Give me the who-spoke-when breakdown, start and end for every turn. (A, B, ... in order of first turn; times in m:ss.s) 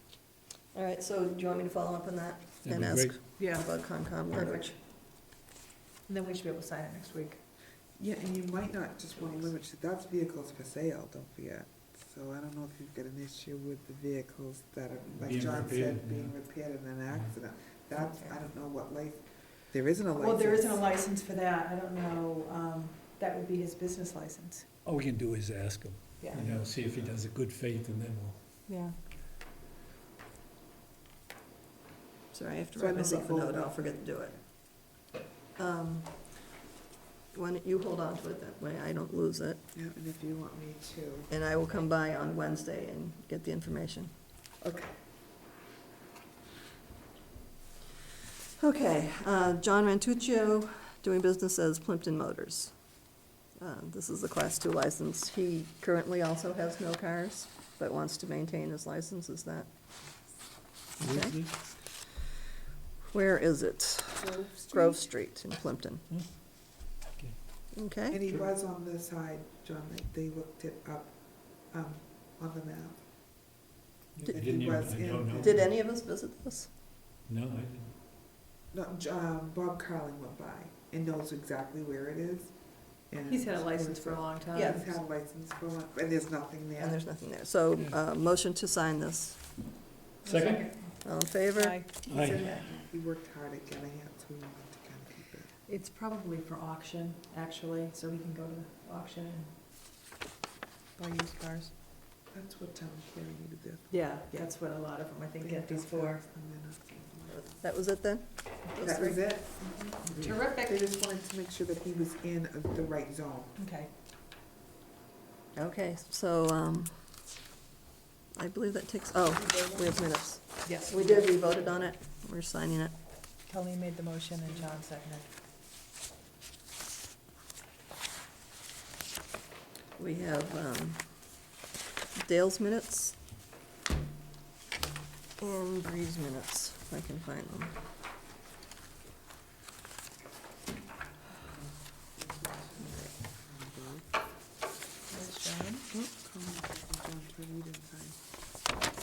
0:00.7-0:04.8 A
0:02.6-0:03.3 B
0:03.4-0:04.8 C
0:06.1-0:07.4 C
0:08.0-0:20.9 D
0:15.1-0:17.3 B
0:17.9-0:18.4 C
0:20.2-0:24.6 C
0:24.8-0:28.4 B
0:26.2-0:26.5 C
0:26.3-0:27.2 D
0:28.6-0:28.9 C
0:32.3-0:34.4 A
0:32.7-0:34.2 D
0:35.6-0:36.5 A
0:37.3-0:39.6 A
0:39.7-0:41.3 D
0:41.3-0:44.1 A
0:44.6-0:45.0 D
0:48.6-0:52.7 A
0:53.6-0:59.7 A
1:01.0-1:01.4 A
1:01.0-1:01.5 B
1:03.1-1:06.0 A
1:04.2-1:04.9 D
1:06.1-1:07.4 B
1:07.7-1:08.2 A
1:08.1-1:13.0 D
1:14.1-1:15.7 B
1:14.3-1:15.5 D
1:15.4-1:16.7 A
1:17.2-1:17.9 B
1:18.7-1:27.1 D
1:23.3-1:24.8 C
1:24.5-1:24.9 A
1:26.8-1:29.5 A
1:30.2-1:32.5 C
1:30.2-1:30.8 B
1:31.0-1:32.0 A
1:32.0-1:32.7 B
1:32.0-1:35.5 D
1:35.6-1:39.5 C
1:41.0-1:41.7 C
1:42.3-1:44.5 D
1:43.9-1:46.2 C
1:45.4-1:47.6 D
1:47.3-1:49.2 A
1:48.7-1:50.8 C
1:48.8-1:53.6 D
1:53.6-1:53.9 C
1:55.5-1:57.2 A
1:58.3-2:02.9 A
2:00.6-2:01.3 C
2:03.5-2:05.3 C
2:10.0-2:11.4 A
2:12.2-2:13.2 A
2:15.4-2:17.7 A
2:21.5-2:24.1 D
2:25.1-2:25.9 C
2:25.9-2:28.2 D